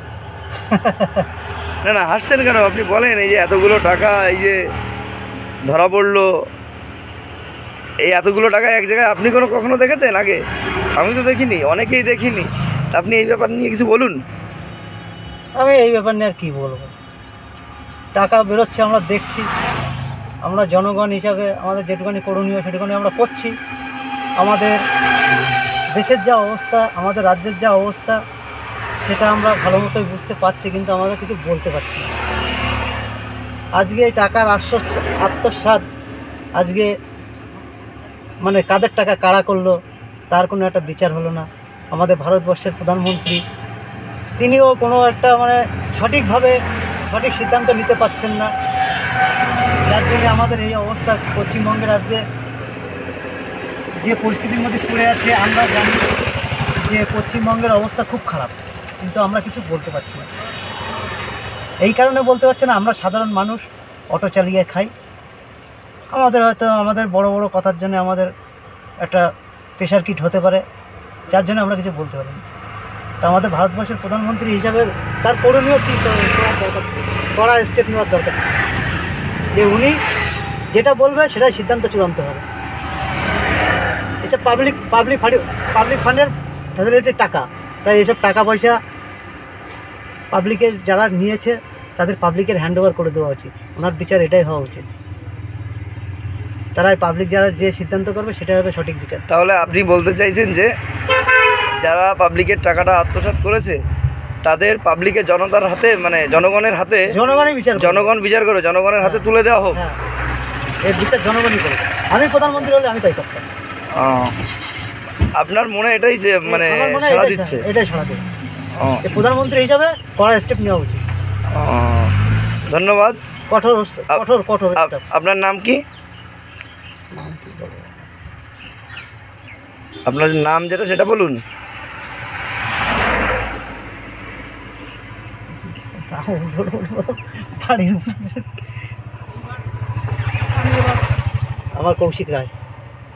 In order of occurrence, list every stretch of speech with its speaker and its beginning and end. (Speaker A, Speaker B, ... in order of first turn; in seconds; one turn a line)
Speaker A: 0.7-1.2
Speaker B: 1.8-4.6
Speaker B: 5.7-6.3
Speaker B: 8.1-10.4
Speaker B: 11.0-14.2
Speaker A: 15.6-16.9
Speaker A: 18.1-19.5
Speaker A: 20.4-23.5
Speaker A: 24.4-24.8
Speaker A: 25.9-28.2
Speaker A: 29.0-32.1
Speaker A: 33.8-35.8
Speaker A: 36.6-36.9
Speaker A: 38.4-39.8
Speaker A: 40.3-43.4
Speaker A: 44.4-48.5
Speaker A: 49.9-52.2
Speaker A: 54.0-56.1
Speaker A: 56.8-60.3
Speaker A: 61.8-63.6
Speaker A: 64.1-64.9
Speaker A: 66.1-68.3
Speaker A: 69.8-70.6
Speaker A: 71.3-72.4
Speaker A: 73.2-78.6
Speaker A: 79.5-80.0
Speaker A: 80.7-82.4
Speaker A: 84.2-88.8
Speaker A: 90.3-94.8
Speaker A: 96.7-99.2
Speaker B: 99.3-100.7
Speaker B: 101.8-103.8
Speaker B: 104.4-107.1
Speaker A: 107.1-108.1
Speaker B: 107.8-109.8
Speaker A: 109.0-110.0
Speaker A: 110.8-113.4
Speaker B: 114.0-114.3
Speaker B: 115.4-117.6
Speaker A: 116.5-118.2
Speaker A: 119.0-121.0
Speaker B: 121.5-122.1
Speaker B: 122.7-123.2
Speaker A: 123.5-125.0
Speaker B: 124.8-125.8
Speaker A: 127.1-127.9
Speaker B: 130.1-131.4
Speaker A: 135.6-138.5
Speaker A: 141.8-142.5